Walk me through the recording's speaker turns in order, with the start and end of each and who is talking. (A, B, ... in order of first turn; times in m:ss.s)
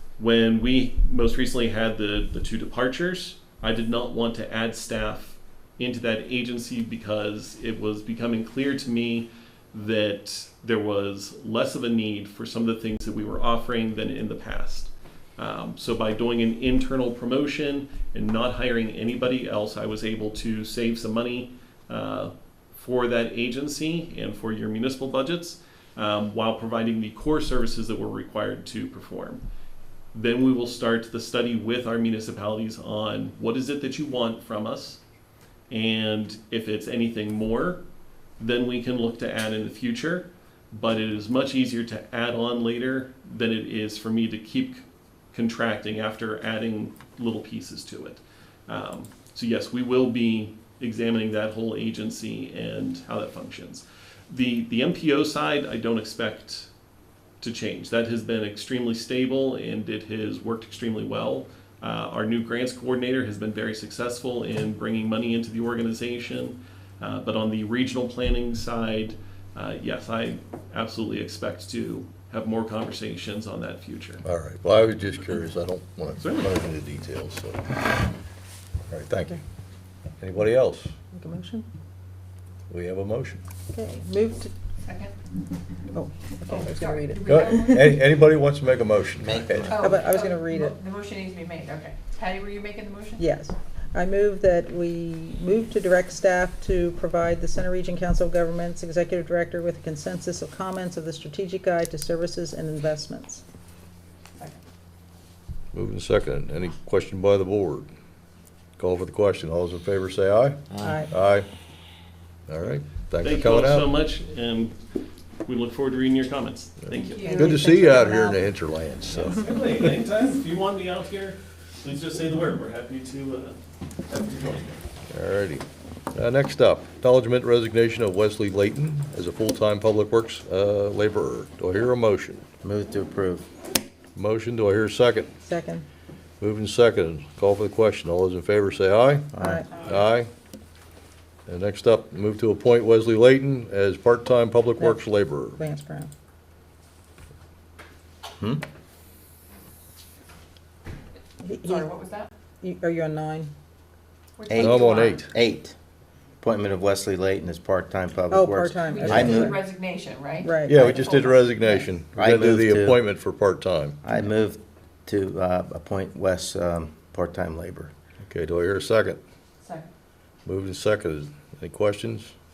0:00.2-0:29.4 A
0:30.1-0:35.0 A
0:35.7-0:37.8 A
0:38.4-0:56.7 A
0:57.4-1:14.2 A
1:14.2-1:18.0 B
1:16.2-1:16.6 A
1:18.9-1:19.4 B
1:20.2-1:20.9 B
1:21.1-1:21.7 C
1:22.7-1:23.4 B
1:23.7-1:24.5 C
1:24.8-1:25.1 D
1:25.9-1:27.9 C
1:26.4-1:28.1 D
1:27.2-1:29.7 B
1:29.2-1:29.9 E
1:29.7-1:33.3 D
1:29.8-1:30.8 C
1:33.2-1:43.4 C
1:45.7-1:47.9 B
1:48.8-1:51.5 B
1:50.7-1:51.0 E
1:50.8-1:51.1 C
1:52.5-1:53.9 B
1:53.2-1:54.8 A
1:55.4-1:57.3 A
1:56.9-1:57.5 D
1:57.2-1:58.4 C
1:57.4-2:00.0 B
1:59.2-2:04.8 A
2:05.1-2:12.4 B
2:12.6-2:13.5 E
2:14.2-2:15.3 B
2:15.4-2:15.8 C
2:16.4-2:20.3 B
2:19.3-2:19.6 E
2:19.4-2:19.7 C
2:21.5-2:25.6 B
2:24.8-2:25.0 C
2:25.6-2:26.1 C
2:28.4-2:28.6 E
2:31.4-2:31.8 C
2:31.6-2:32.3 D
2:32.6-2:33.5 C
2:34.4-2:35.2 D
2:34.5-2:35.7 E
2:34.6-2:35.3 B
2:36.4-2:39.6 E
2:38.3-2:39.6 C
2:38.8-2:41.4 D
2:40.4-2:41.0 C
2:40.6-2:44.0 B
2:42.1-2:43.0 E
2:44.0-2:47.9 E
2:48.2-2:49.2 B
2:49.6-2:49.9 D
2:50.4-2:52.3 B